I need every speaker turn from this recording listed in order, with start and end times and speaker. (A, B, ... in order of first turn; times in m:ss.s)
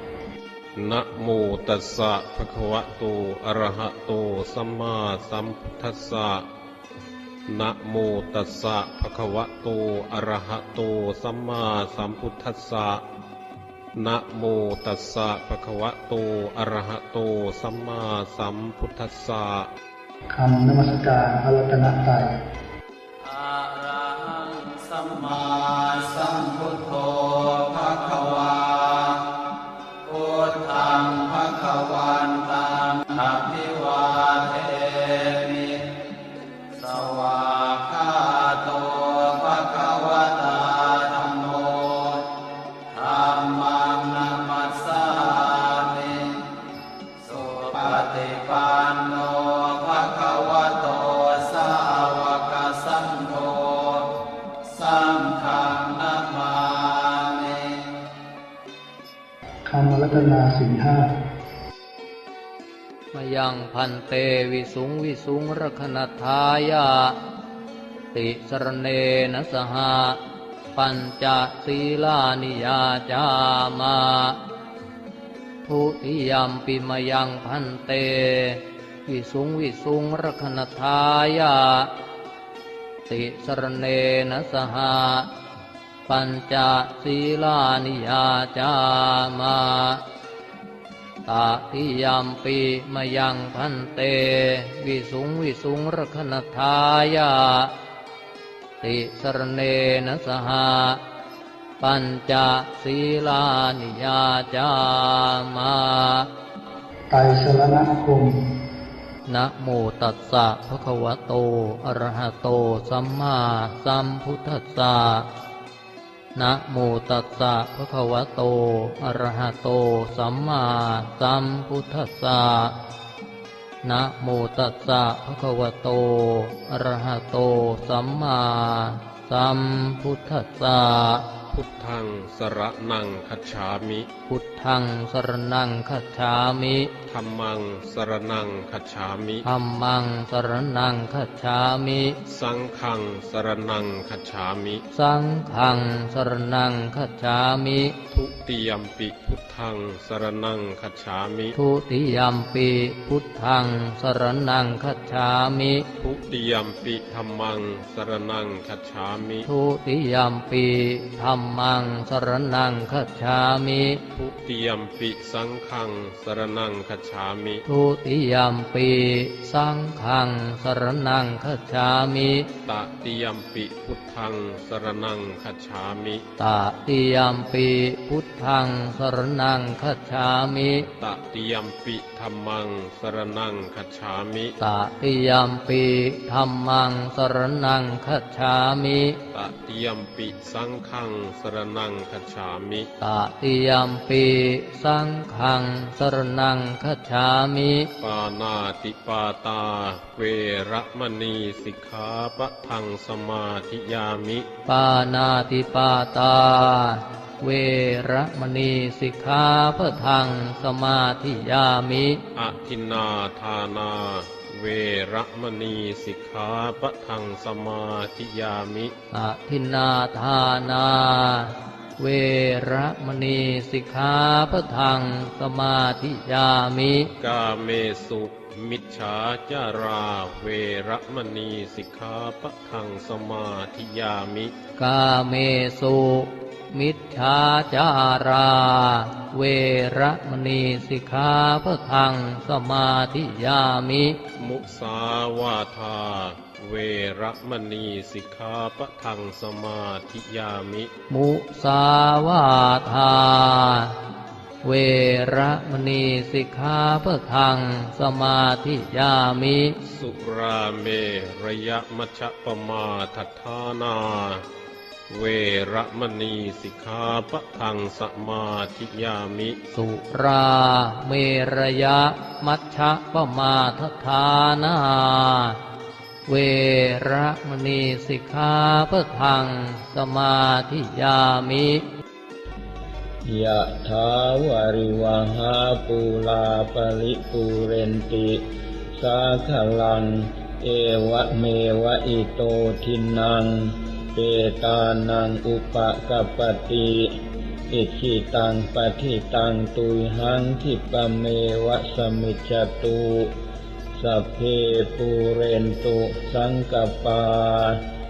0:00.7-0:06.5 A
0:07.5-0:13.0 A
0:13.9-0:19.7 A
0:20.3-0:22.4 B
0:23.2-0:29.2 C
0:30.0-0:35.9 C
0:36.7-0:42.3 C
0:42.9-0:46.5 C
0:47.2-0:54.1 C
0:54.6-0:57.8 C
0:59.7-1:01.2 B
1:03.1-1:07.2 D
1:08.1-1:10.2 D
1:10.7-1:14.4 D
1:15.6-1:21.9 D
1:23.1-1:25.3 D
1:26.1-1:30.0 D
1:31.2-1:37.7 D
1:38.8-1:41.0 D
1:41.8-1:46.3 D
1:47.1-1:48.4 B
1:49.3-1:55.3 D
1:56.3-2:02.8 D
2:03.8-2:11.2 D
2:11.5-2:14.1 A
2:14.3-2:16.9 D
2:17.0-2:19.4 A
2:19.4-2:22.2 D
2:22.2-2:24.8 A
2:24.9-2:28.0 D
2:28.1-2:31.6 A
2:31.5-2:35.8 D
2:36.0-2:39.5 A
2:39.4-2:44.0 D
2:44.1-2:47.6 A
2:47.6-2:52.5 D
2:52.6-2:56.2 A
2:56.4-3:00.9 D
3:01.0-3:04.6 A
3:04.6-3:09.2 D
3:09.3-3:12.9 A
3:13.0-3:17.9 D
3:18.0-3:24.4 A
3:24.7-3:32.2 D
3:32.3-3:38.9 A
3:39.1-3:47.1 D
3:47.2-3:54.5 A
3:54.8-4:04.2 D
4:04.4-4:10.9 A
4:11.1-4:14.0 D
4:14.6-4:19.8 D
4:19.8-4:24.4 A
4:25.1-4:29.6 A
4:29.7-4:35.6 D
4:36.3-4:41.9 D
4:43.3-4:57.1 E
4:57.7-5:03.4 E
5:04.0-5:07.8 E